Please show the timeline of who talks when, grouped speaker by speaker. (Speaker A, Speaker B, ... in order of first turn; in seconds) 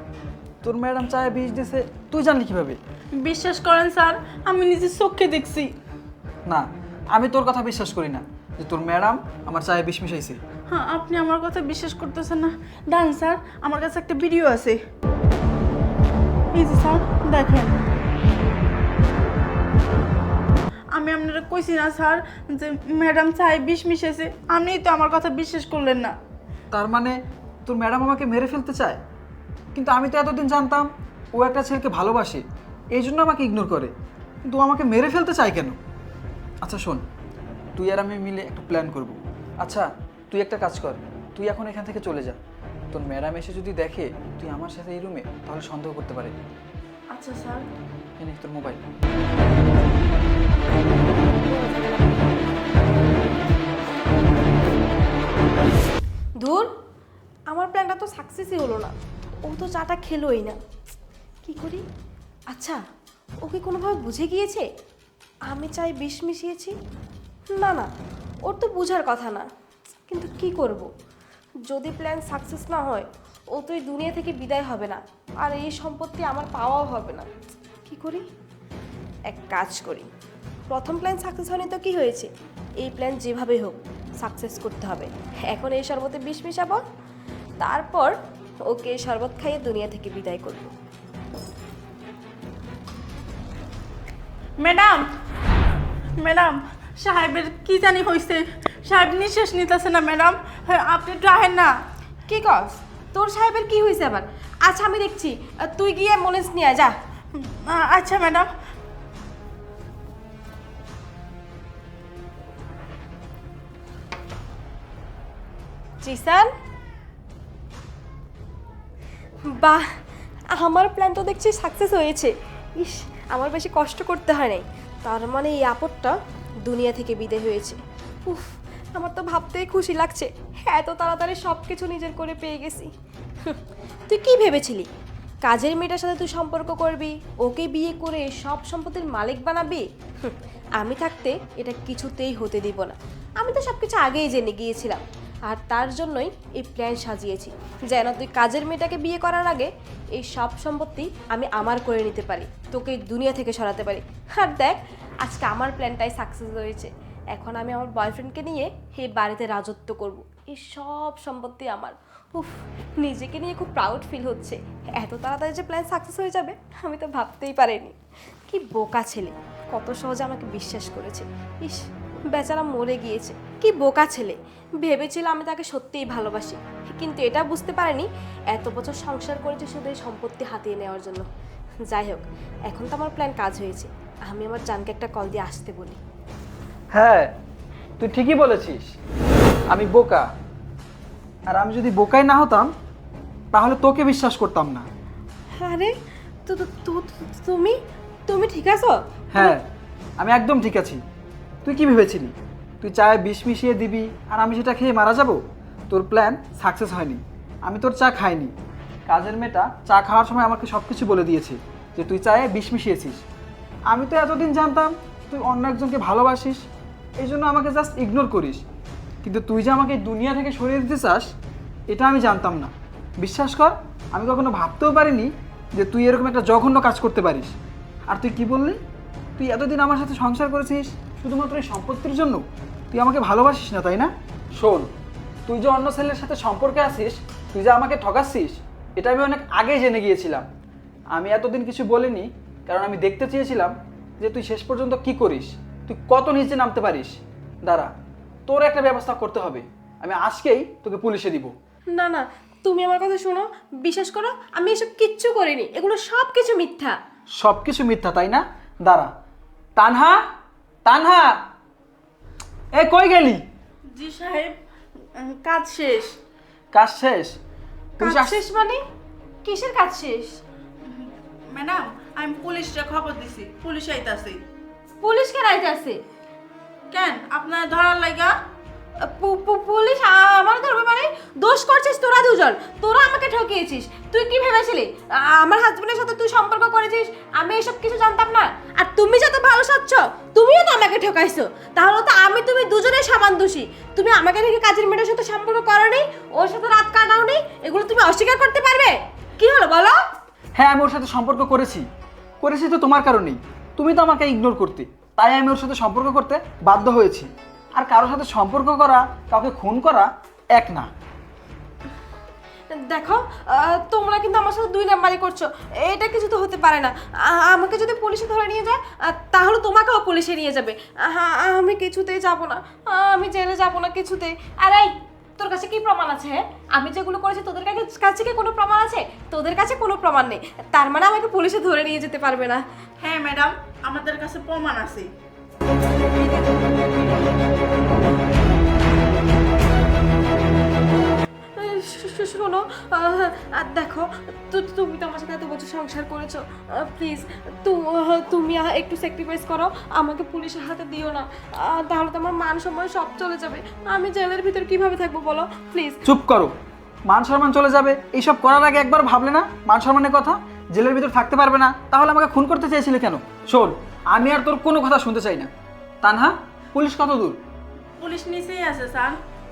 Speaker A: 0.6-2.8, 6.5-10.4, 26.7-29.0, 29.8-33.9, 34.4-35.8, 36.6-37.0, 37.8-42.4, 42.9-46.4, 48.2-48.8, 186.9-187.3, 188.0-188.9, 189.7-190.3, 191.5-192.7, 193.5-194.9, 199.3-199.6, 200.2-201.0, 201.7-208.5, 209.1-213.2, 213.9-216.6, 217.2-218.6, 219.2-221.3, 221.9-227.6, 228.1-228.8, 229.4-234.9, 235.5-240.5, 241.1-247.9, 248.5-251.5, 257.4-259.1, 259.8-260.3, 260.9-261.4, 262.7-263.4, 266.7-267.4, 268.0-268.4, 300.6-301.9, 302.4-310.9, 356.1-356.5, 357.1-365.5, 366.0-367.4
Speaker B: 3.1-5.8, 10.7-14.8, 16.5-17.8, 20.9-26.2, 47.1-47.7, 94.6-95.1, 96.2-101.8, 107.3-108.5, 263.9-264.6, 265.1-266.2, 270.8-274.4, 276.9-278.3, 333.0-335.1, 368.0-369.2
Speaker C: 51.4-52.3, 56.4-56.7, 57.5-60.6, 61.4-61.8, 62.5-62.8, 63.4-64.7, 65.5-66.8, 67.6-67.9, 68.5-69.5, 70.1-70.9, 71.7-77.3, 77.9-78.2, 79.3-80.1, 80.7-82.3, 82.8-86.8, 87.6-88.1, 88.7-90.7, 102.3-106.9, 116.0-116.5, 119.6-119.8, 120.6-126.2, 126.7-132.9, 133.4-134.9, 135.5-167.9, 168.5-181.3, 181.9-186.0, 195.6-195.9, 196.5-199.6, 251.9-257.0, 268.0-268.8, 269.4-270.4, 275.0-276.0, 279.0-300.0, 312.7-332.6, 335.7-337.1, 341.6-356.0